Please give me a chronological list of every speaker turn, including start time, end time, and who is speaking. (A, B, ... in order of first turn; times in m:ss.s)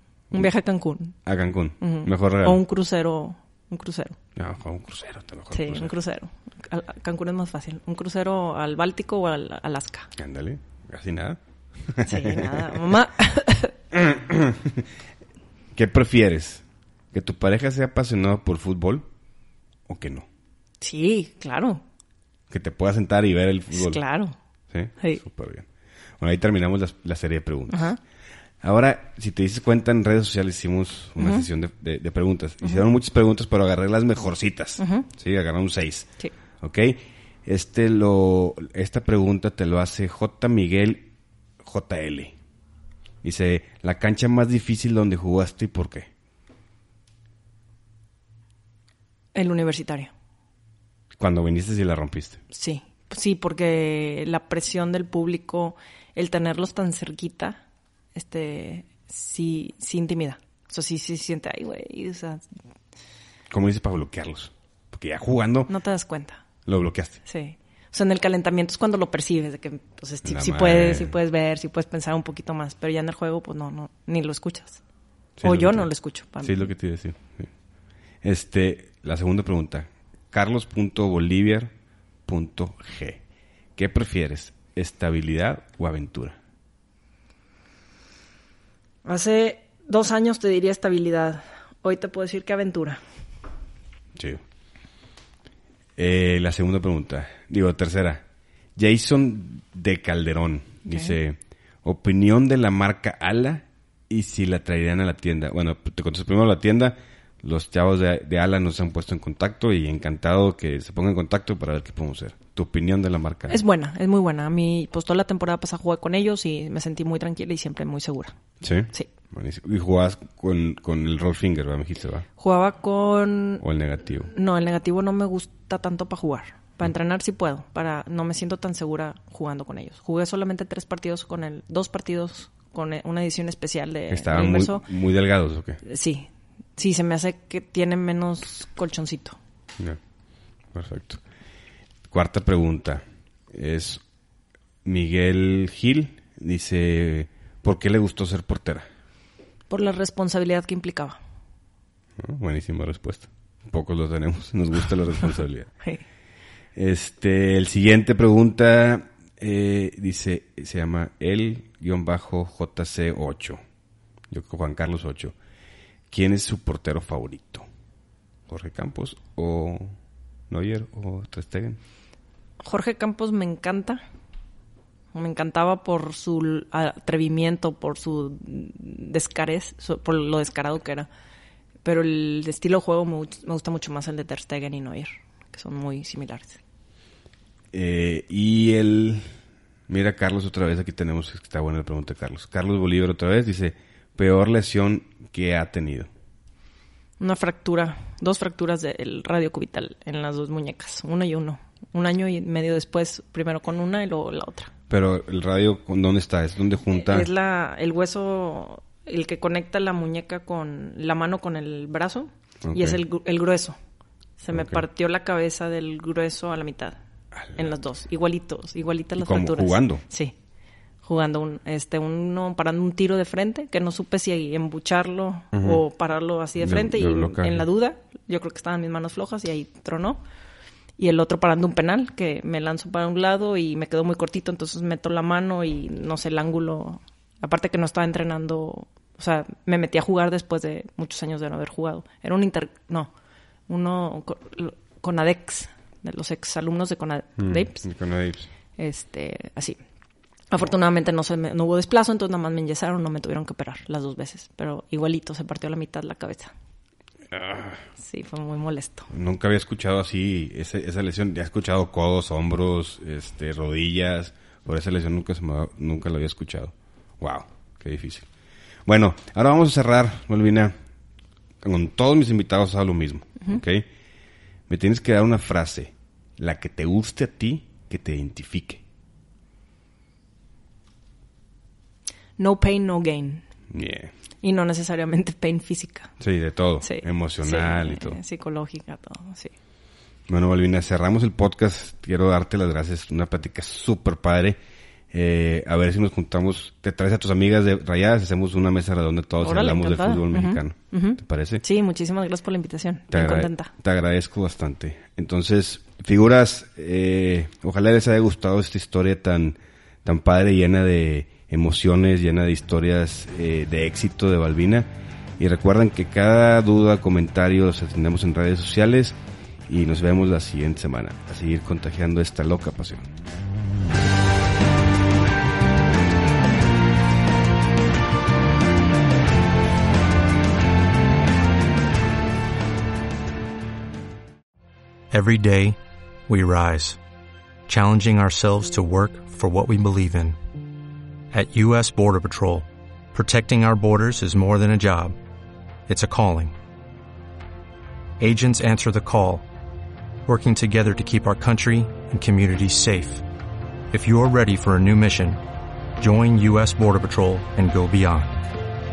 0:00.3-0:01.2 A
0:01.2-0:02.6 B
0:01.8-0:04.2 A
0:04.4-0:05.9 B
0:05.5-0:10.1 A
0:10.2-0:12.8 B
0:12.1-0:13.8 A
0:13.9-0:14.9 B
0:15.7-0:19.1 B
0:19.9-0:20.3 B
0:20.8-0:21.8 A
0:22.5-0:24.0 B
0:23.7-0:24.4 A
0:24.7-0:25.7 B
0:26.2-0:27.9 B
0:27.7-0:28.0 A
0:28.6-0:42.4 B
0:31.2-0:31.5 A
0:34.8-0:35.1 A
0:43.2-0:46.1 B
0:49.4-0:50.1 A
0:51.2-0:52.4 B
0:52.5-0:57.6 A
0:58.2-1:02.5 A
1:03.5-1:05.7 B
1:05.7-1:06.4 A
1:06.7-1:07.2 B
1:07.3-1:14.8 A
1:10.2-1:11.2 B
1:15.4-1:15.9 B
1:15.4-1:16.7 A
1:16.4-1:17.5 B
1:18.2-1:21.7 B
1:22.3-1:23.2 B
1:23.8-1:26.4 B
1:29.0-1:33.0 A
1:34.2-1:34.4 B
1:36.0-1:38.2 B
1:38.8-1:53.6 B
1:40.9-1:41.2 A
1:53.5-1:58.4 A
1:58.6-2:02.3 B
2:02.4-2:03.6 A
2:03.6-2:04.3 B
2:04.3-2:14.9 A
2:14.1-2:15.8 B
2:15.8-2:19.4 A
2:20.7-2:21.2 B
2:22.1-2:24.0 B
2:24.8-2:28.9 B
2:29.7-2:31.2 A
2:32.2-2:35.7 B
2:36.8-2:43.6 B
2:44.3-2:45.4 B
2:46.1-2:47.7 B
2:48.5-2:50.0 B
2:50.5-2:51.8 B
2:52.6-2:54.0 A
2:55.1-3:01.1 A
3:01.8-3:06.6 A
3:07.7-3:09.3 B
3:09.9-3:16.1 B
3:17.2-3:24.7 A
3:24.9-3:27.3 B
3:26.9-3:33.8 A
3:32.6-3:33.0 B
3:34.4-3:37.0 A
3:34.5-3:34.8 B
3:37.4-3:37.7 B
3:37.6-3:40.4 A
3:39.2-3:40.0 B
3:41.0-3:50.2 A
3:45.5-3:45.8 B
3:46.6-3:47.6 B
3:51.0-4:03.1 A
4:03.7-4:07.8 A
4:07.4-4:08.5 B
4:08.8-4:09.8 A
4:10.5-4:16.5 A
4:17.3-4:17.8 B
4:18.0-4:19.1 A
4:19.1-4:28.3 B
4:28.9-4:30.8 B
4:31.6-4:33.9 B
4:34.7-4:38.8 B
4:42.4-4:43.4 A
4:43.7-4:44.1 B
4:44.4-4:46.1 A
4:46.2-4:48.2 B
4:46.8-4:49.5 A
4:50.3-4:54.6 B
4:55.1-5:01.6 B
4:59.4-5:03.7 A
5:03.1-5:19.2 B
5:19.7-5:23.1 B
5:35.1-5:37.0 C
5:37.7-5:40.4 C
5:41.3-5:45.2 C
5:45.9-5:46.6 C
5:48.2-5:49.4 C
5:50.3-5:53.2 C
5:53.9-5:55.4 C
5:56.0-5:58.5 C